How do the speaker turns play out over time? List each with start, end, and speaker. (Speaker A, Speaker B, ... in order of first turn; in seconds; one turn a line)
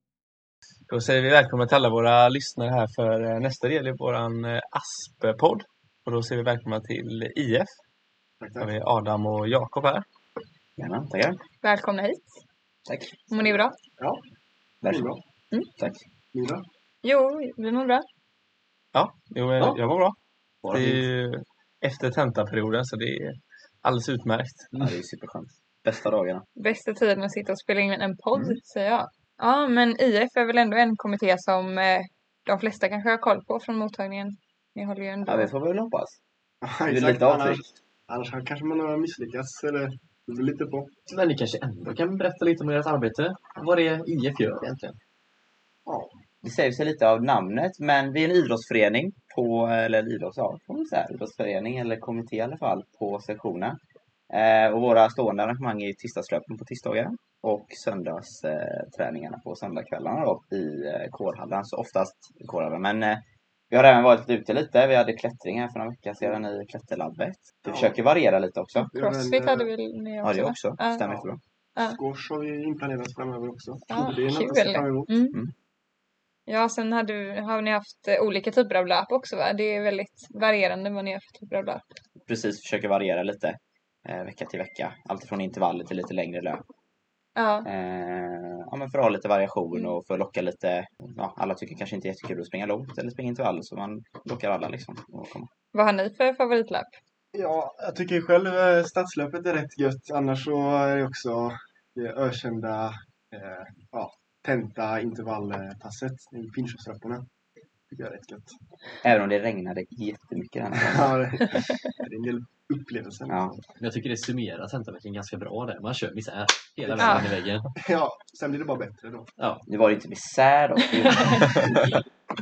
Speaker A: 0.9-7.7
Speaker B: 8.4-8.7
Speaker A: 8.6-10.1
Speaker C: 10.8-11.4
Speaker D: 11.6-12.3
Speaker C: 12.9-13.6
Speaker D: 13.3-13.8
Speaker C: 14.8-15.1
Speaker B: 14.8-15.2
Speaker C: 15.8-16.0
Speaker B: 16.3-16.7
Speaker D: 17.0-18.1
Speaker A: 18.9-24.7
Speaker E: 20.6-21.0
Speaker C: 24.8-26.4
Speaker D: 26.6-35.5
Speaker C: 28.3-28.6
Speaker C: 35.2-36.2
Speaker B: 36.6-41.0
Speaker C: 36.9-37.7
Speaker E: 41.1-45.0
Speaker B: 45.9-46.1
Speaker C: 46.4-53.8
Speaker C: 54.3-68.9
Speaker B: 67.7-68.0
Speaker D: 68.8-71.0
Speaker B: 68.9-69.7
Speaker C: 70.2-71.4
Speaker B: 71.8-75.2
Speaker D: 73.9-75.4
Speaker D: 76.5-81.9
Speaker C: 82.2-86.6
Speaker D: 87.4-87.7
Speaker C: 87.7-95.5
Speaker D: 89.7-90.0
Speaker D: 95.7-96.9
Speaker B: 97.3-107.3
Speaker B: 107.9-108.6
Speaker C: 109.0-111.2
Speaker B: 110.8-113.6
Speaker C: 113.3-113.5
Speaker E: 113.8-117.7
Speaker B: 116.8-119.3
Speaker D: 117.0-117.3
Speaker E: 119.4-119.6
Speaker C: 119.7-121.9
Speaker D: 121.0-121.6